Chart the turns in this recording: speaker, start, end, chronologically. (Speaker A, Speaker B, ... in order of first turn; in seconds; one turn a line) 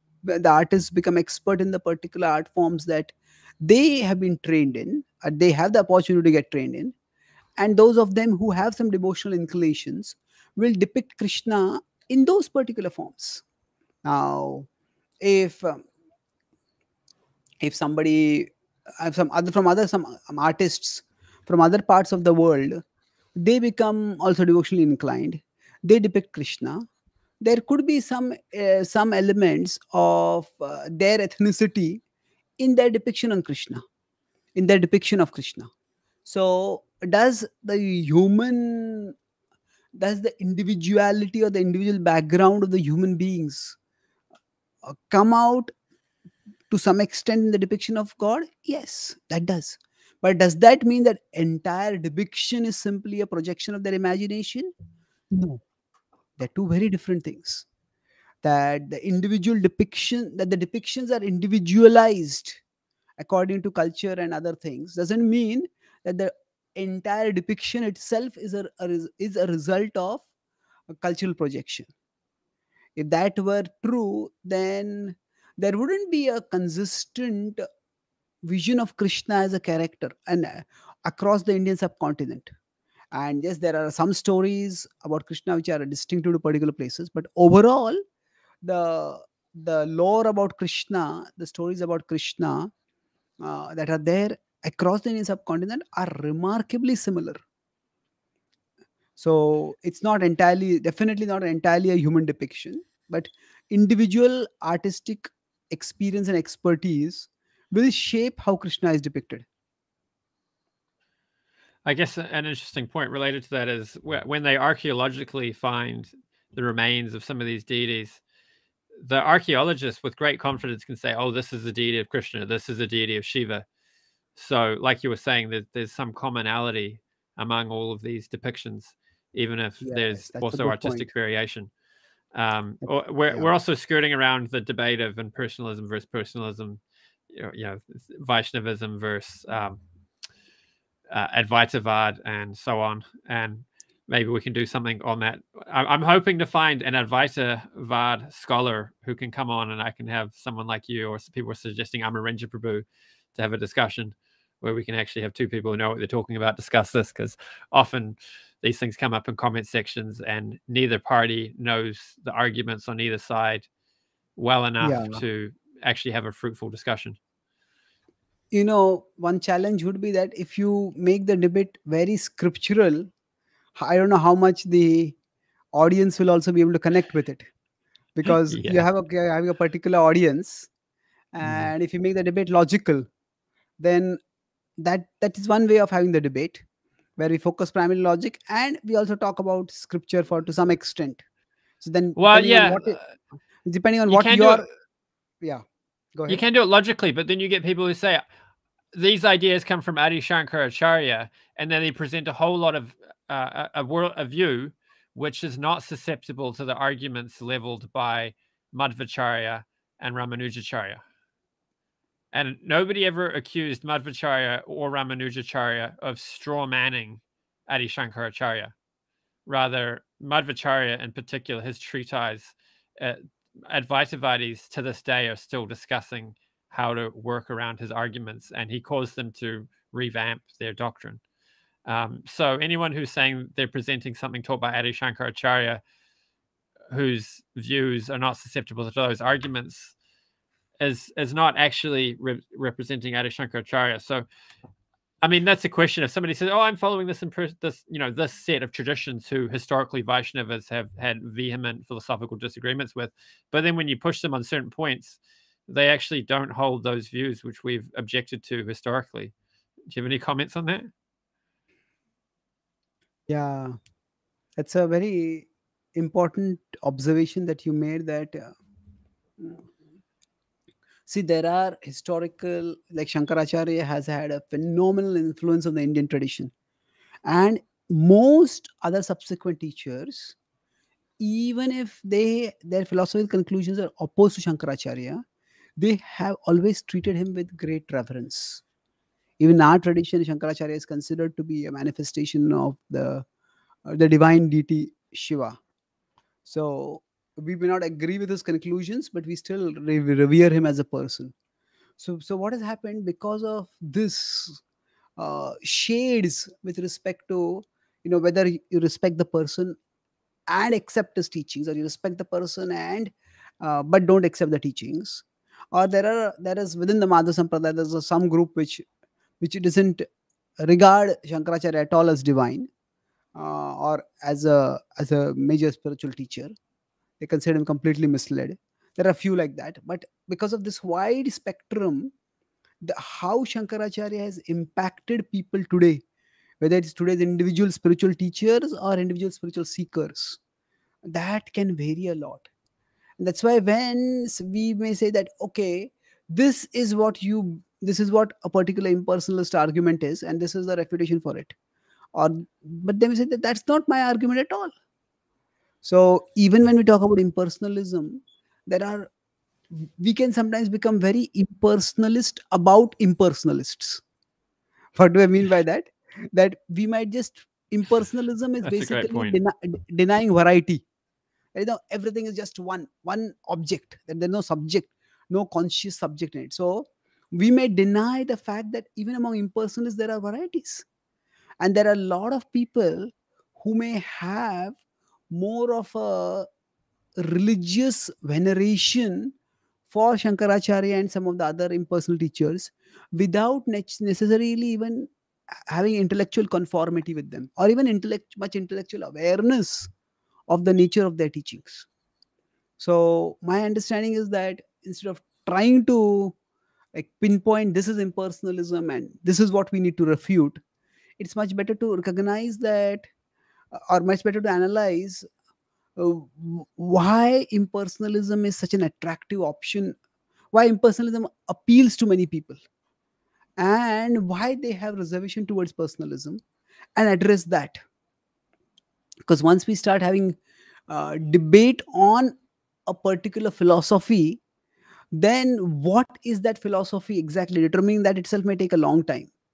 Speaker A: 0.2-6.9
Speaker A: 7.6-13.4
Speaker A: 14.0-14.7
Speaker A: 15.2-15.8
Speaker A: 17.6-22.8
Speaker A: 23.4-26.8
Speaker A: 27.4-32.0
Speaker A: 32.6-33.8
Speaker A: 34.5-35.7
Speaker A: 36.3-39.1
Speaker A: 40.0-43.8
Speaker A: 44.9-45.7
Speaker A: 46.7-54.7
Speaker A: 55.3-55.6
Speaker A: 56.4-57.7
Speaker A: 58.4-62.6
Speaker A: 63.2-70.3
Speaker A: 70.9-71.9
Speaker A: 73.0-77.6
Speaker A: 78.5-82.5
Speaker A: 83.1-88.0
Speaker A: 88.6-92.7
Speaker A: 93.4-97.4
Speaker A: 99.2-109.5
Speaker B: 111.8-118.2
Speaker B: 119.0-123.7
Speaker B: 124.3-131.7
Speaker A: 129.8-131.1
Speaker B: 132.3-139.8
Speaker A: 132.8-133.5
Speaker B: 141.1-163.7
Speaker B: 164.4-167.2
Speaker A: 164.8-165.2
Speaker A: 168.5-173.1
Speaker A: 173.8-175.2
Speaker A: 175.7-177.5
Speaker A: 178.2-180.7
Speaker B: 178.3-178.8
Speaker A: 181.3-183.1
Speaker B: 181.4-181.7
Speaker A: 183.8-184.2
Speaker A: 184.8-186.6
Speaker A: 187.2-191.2
Speaker A: 191.8-193.0
Speaker B: 192.2-193.1
Speaker A: 193.7-194.7
Speaker B: 194.1-194.7
Speaker A: 196.2-196.4
Speaker B: 196.3-198.2
Speaker B: 198.9-211.0
Speaker B: 212.3-218.7
Speaker B: 219.5-231.2
Speaker B: 231.9-235.8
Speaker B: 236.9-239.9
Speaker B: 240.8-244.3
Speaker B: 245.2-259.3
Speaker B: 259.9-260.9
Speaker A: 263.3-263.8
Speaker A: 264.6-268.6
Speaker A: 269.4-269.6
Speaker A: 271.1-276.5
Speaker A: 277.3-280.4
Speaker A: 281.2-285.2
Speaker A: 285.8-288.6
Speaker A: 289.4-293.2
Speaker A: 293.9-295.6
Speaker A: 296.5-301.3
Speaker A: 302.0-304.6
Speaker A: 305.2-309.8
Speaker A: 310.5-318.9
Speaker A: 319.4-320.1
Speaker A: 320.6-322.7
Speaker A: 323.4-326.5
Speaker A: 327.2-332.1
Speaker A: 332.8-336.0
Speaker A: 336.6-340.4
Speaker A: 341.1-342.5
Speaker A: 343.2-351.5
Speaker A: 352.1-354.7
Speaker A: 355.8-359.1
Speaker A: 359.7-364.0
Speaker A: 364.9-370.8
Speaker B: 368.6-369.4
Speaker A: 371.6-380.9
Speaker A: 381.6-384.8
Speaker A: 385.3-386.5
Speaker A: 387.2-389.3
Speaker A: 389.9-395.1
Speaker A: 395.7-399.9
Speaker A: 400.5-401.9
Speaker A: 402.8-406.4
Speaker A: 406.9-410.6
Speaker A: 411.2-413.1
Speaker A: 413.7-415.3
Speaker A: 416.0-420.0
Speaker A: 420.5-422.6
Speaker A: 423.6-426.4
Speaker A: 427.0-427.8
Speaker A: 429.3-430.4
Speaker A: 430.9-432.4
Speaker A: 432.9-434.4
Speaker A: 435.1-439.3